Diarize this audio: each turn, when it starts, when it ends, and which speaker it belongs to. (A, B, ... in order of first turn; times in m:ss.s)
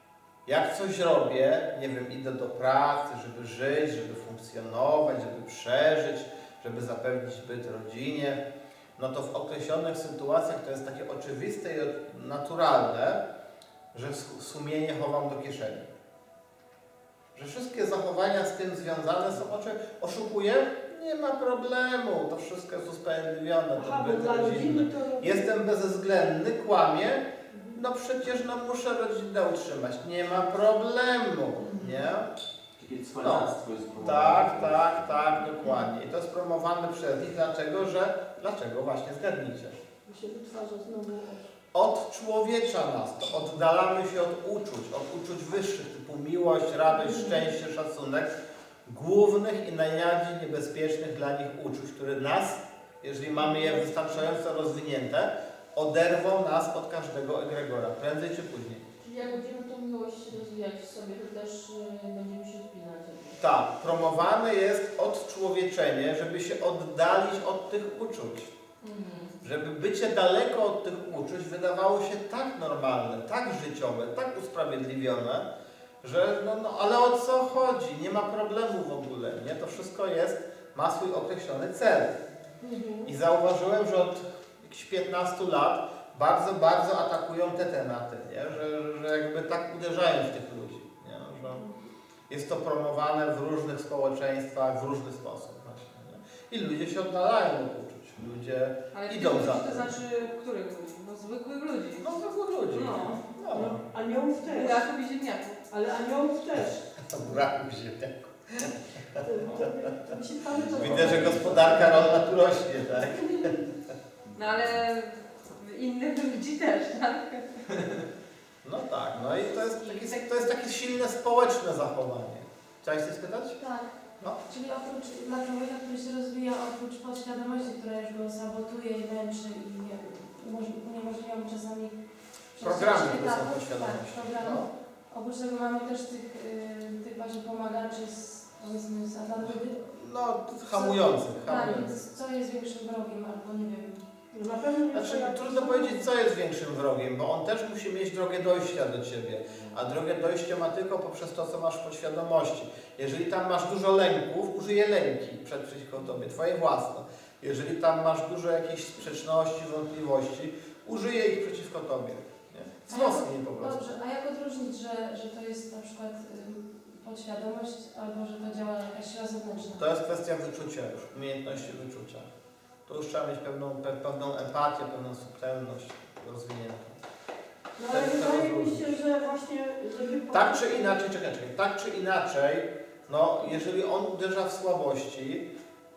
0:00.4-0:08.4 A
0:09.0-0:13.2 A
0:13.9-0:15.9 A
0:17.3-0:32.3 A
0:23.7-0:25.5 B
0:27.5-0:27.8 B
0:31.6-0:32.1 C
0:32.8-0:35.1 D
0:33.2-0:39.8 A
0:40.0-0:41.5 B
0:41.7-0:48.3 A
0:48.8-0:58.8 A
0:59.0-1:03.4 C
1:03.4-1:08.5 A
1:08.8-1:09.4 C
1:09.4-1:15.5 A
1:16.0-1:22.2 A
1:22.6-1:23.1 B
1:23.0-1:31.6 A
1:32.3-1:40.0 A
1:38.9-1:42.1 E
1:42.0-1:43.8 A
1:42.7-1:43.2 E
1:42.9-1:44.9 B
1:44.5-1:45.6 E
1:45.7-1:46.8 B
1:47.0-1:49.6 A
1:49.2-1:52.2 B
1:50.8-1:53.7 A
1:54.3-1:57.9 E
1:58.6-2:03.6 A
1:59.2-2:00.3 E
2:03.6-2:11.9 F
2:12.5-2:19.8 F
2:12.6-2:14.7 A
2:19.4-2:22.0 A
2:20.7-2:24.0 F
2:24.3-2:26.0 B
2:24.9-2:43.9 A
2:42.9-2:49.8 F
2:49.7-2:52.3 A
2:52.8-2:57.0 A
2:57.8-3:01.1 B
2:57.9-2:59.0 A
3:00.3-3:05.5 A